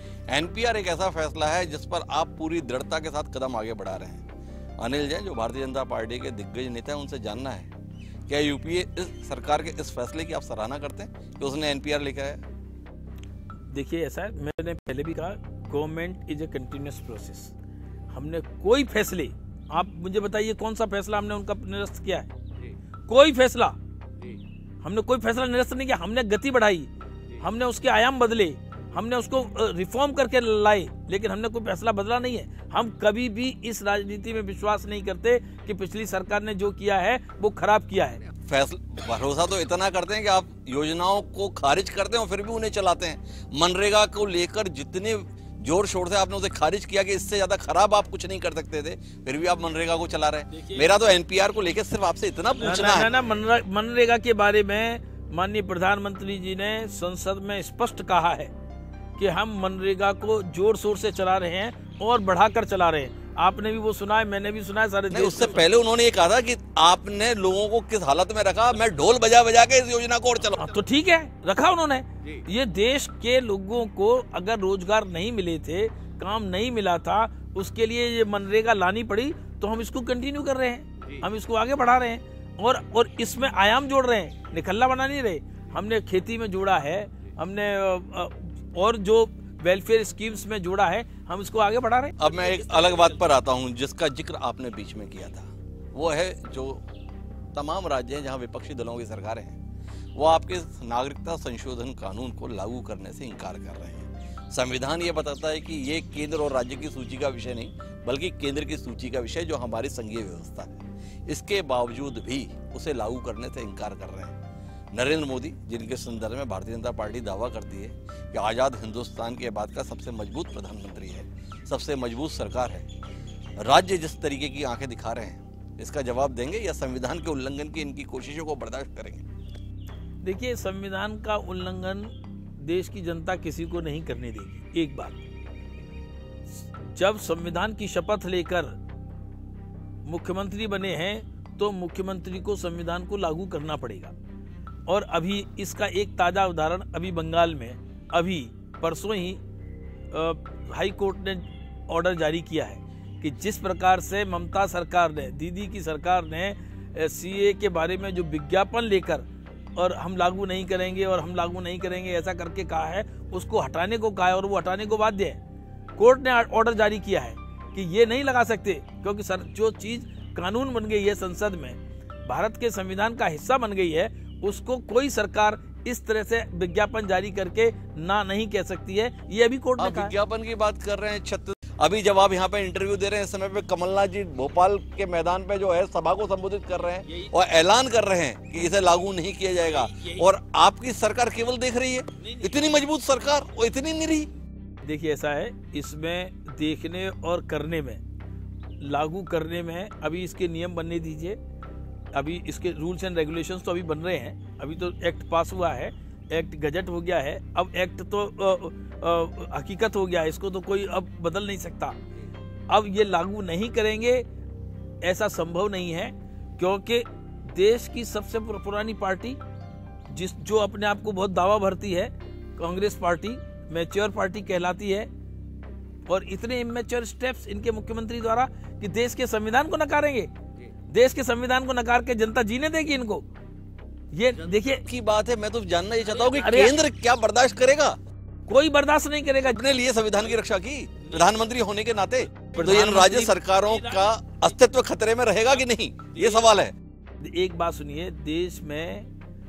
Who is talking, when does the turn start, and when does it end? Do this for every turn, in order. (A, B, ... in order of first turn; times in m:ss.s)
0:00.3-0:04.2 A
0:04.8-0:07.7 A
0:08.3-0:12.4 A
0:13.7-0:17.5 B
0:18.1-0:22.3 B
0:23.1-0:23.8 B
0:24.8-0:38.2 B
0:38.4-0:53.1 A
0:50.5-0:50.9 B
0:52.6-0:58.5 B
0:59.2-1:05.6 B
1:05.1-1:10.8 A
1:10.6-1:33.2 B
1:32.2-1:36.8 A
1:37.5-1:39.6 A
1:40.2-1:54.4 A
1:54.9-2:02.9 A
2:03.6-2:09.2 A
2:10.2-2:15.2 B
2:16.9-2:18.8 B
2:20.1-2:24.1 B
2:24.9-2:29.4 B
2:30.1-2:45.4 B
2:46.0-3:00.2 B
2:59.8-3:14.3 A
3:09.8-3:10.2 B
3:14.8-3:18.0 B
3:18.8-3:21.4 B
3:22.1-3:32.0 B
3:32.7-3:34.3 B
3:35.0-3:39.4 B
3:40.1-3:45.1 B
3:46.1-3:50.3 B
3:50.9-3:53.3 B
3:54.1-3:54.9 B
3:54.8-3:58.0 A
3:56.2-3:56.8 B
3:58.5-3:59.6 B
3:59.4-4:06.8 A
4:02.5-4:04.1 B
4:06.2-4:06.4 B
4:07.2-4:09.1 B